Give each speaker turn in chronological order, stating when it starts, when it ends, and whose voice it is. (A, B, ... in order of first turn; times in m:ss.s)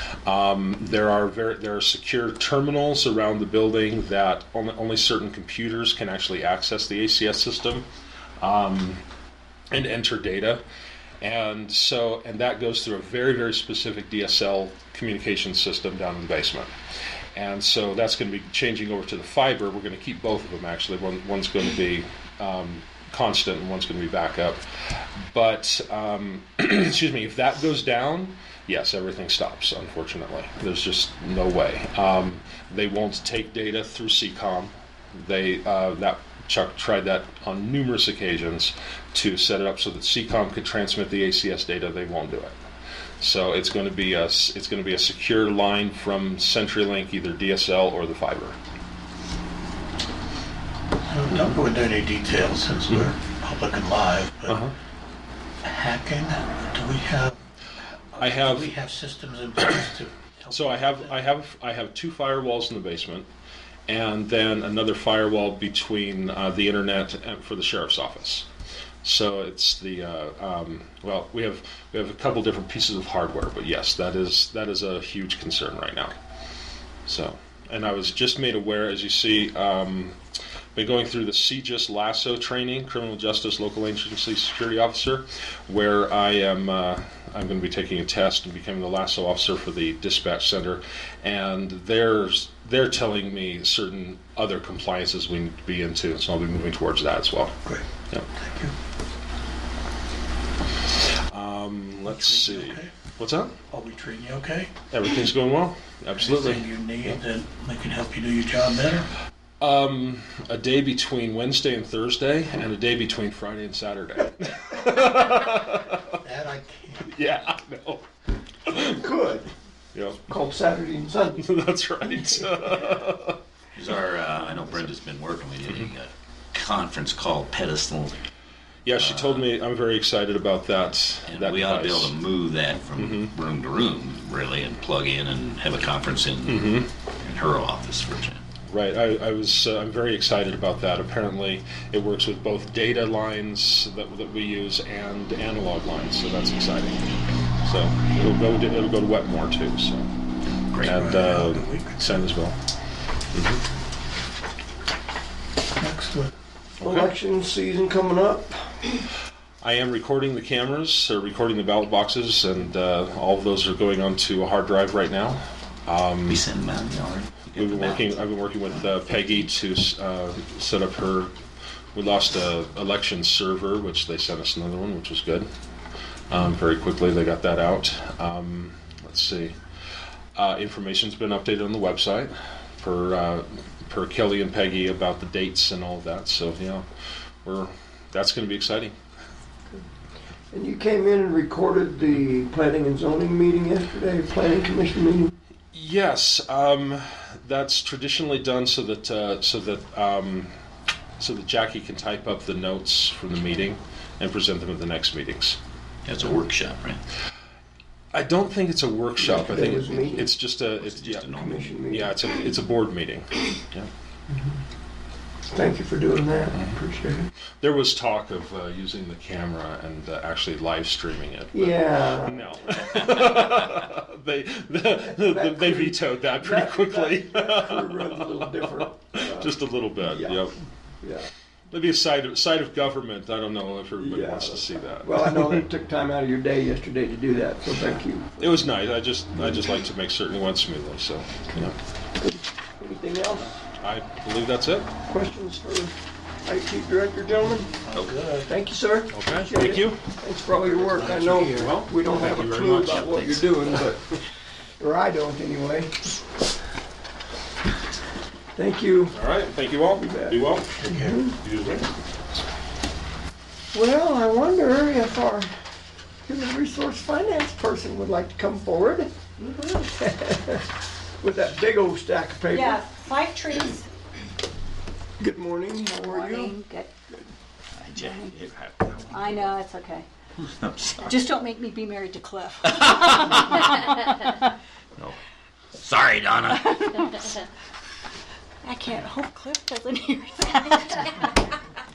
0:00.3-0:07.9 A
0:08.4-0:09.0 A
0:09.7-0:10.6 A
0:11.2-0:16.7 A
0:17.4-0:42.6 A
0:43.2-0:48.6 A
0:51.1-0:54.6 B
0:54.5-0:54.7 A
0:55.6-0:57.3 B
0:58.2-1:00.5 B
0:58.2-0:58.7 A
1:00.5-1:03.3 A
1:03.9-1:08.5 A
1:09.0-1:16.2 A
1:17.1-1:20.2 A
1:20.8-1:37.5 A
1:38.4-1:38.7 B
1:41.3-1:43.5 A
1:42.1-1:42.9 B
1:43.7-1:44.7 B
1:44.9-1:47.2 A
1:46.2-1:49.0 B
1:49.6-1:56.2 A
1:56.2-1:57.1 B
1:57.0-1:58.0 A
1:58.7-1:59.5 C
1:59.9-2:00.2 A
2:00.3-2:01.5 C
2:01.4-2:03.4 A
2:03.8-2:08.2 D
2:08.8-2:12.1 A
2:09.0-2:09.4 D
2:11.3-2:18.4 D
2:13.0-2:13.3 A
2:16.5-2:16.9 A
2:18.7-2:30.1 A
2:30.7-2:31.9 B
2:30.8-2:32.6 A
2:33.3-2:33.6 A
2:35.8-2:36.3 B
2:36.8-2:38.8 C
2:36.8-2:37.1 A
2:39.6-2:46.4 A
2:46.3-2:48.2 D
2:47.6-2:51.4 A
2:52.0-2:55.5 A
2:56.3-2:59.6 A
3:00.4-3:06.8 A
3:07.4-3:08.9 A
3:10.5-3:15.3 C
3:15.7-3:20.5 A
3:21.2-3:25.6 A
3:26.1-3:27.0 D
3:28.1-3:31.3 A
3:29.2-3:30.3 C
3:30.8-3:31.7 D
3:31.3-3:32.3 C
3:31.9-3:33.9 A
3:35.5-3:37.3 C
3:37.6-3:50.6 A
3:41.5-3:42.5 C
3:45.0-3:50.5 C
3:51.0-3:51.3 C
3:51.7-3:55.6 A
3:54.0-3:58.6 C
3:58.4-4:01.8 A
4:02.2-4:03.6 C
4:03.8-4:04.9 A
4:05.1-4:05.9 C
4:06.4-4:07.7 C
4:07.9-4:08.5 B
4:07.9-4:08.2 D
4:08.4-4:14.2 C
4:09.1-4:10.0 A
4:10.6-4:11.6 B
4:11.5-4:13.5 A
4:14.8-4:16.0 C
4:18.6-4:19.2 C
4:19.1-4:20.7 A
4:19.9-4:21.4 C
4:21.4-4:21.8 A
4:23.7-4:25.5 C
4:26.3-4:29.1 C
4:29.7-4:30.7 C
4:31.2-4:32.8 C
4:32.5-4:33.9 E
4:35.2-4:36.5 C
4:36.0-4:36.9 E
4:37.8-4:39.4 D
4:37.9-4:38.4 E
4:39.1-4:40.1 E
4:40.5-4:41.1 D
4:41.0-4:44.5 E
4:42.6-4:43.6 D
4:45.8-4:46.9 D
4:46.6-4:47.3 E
4:48.6-4:51.6 E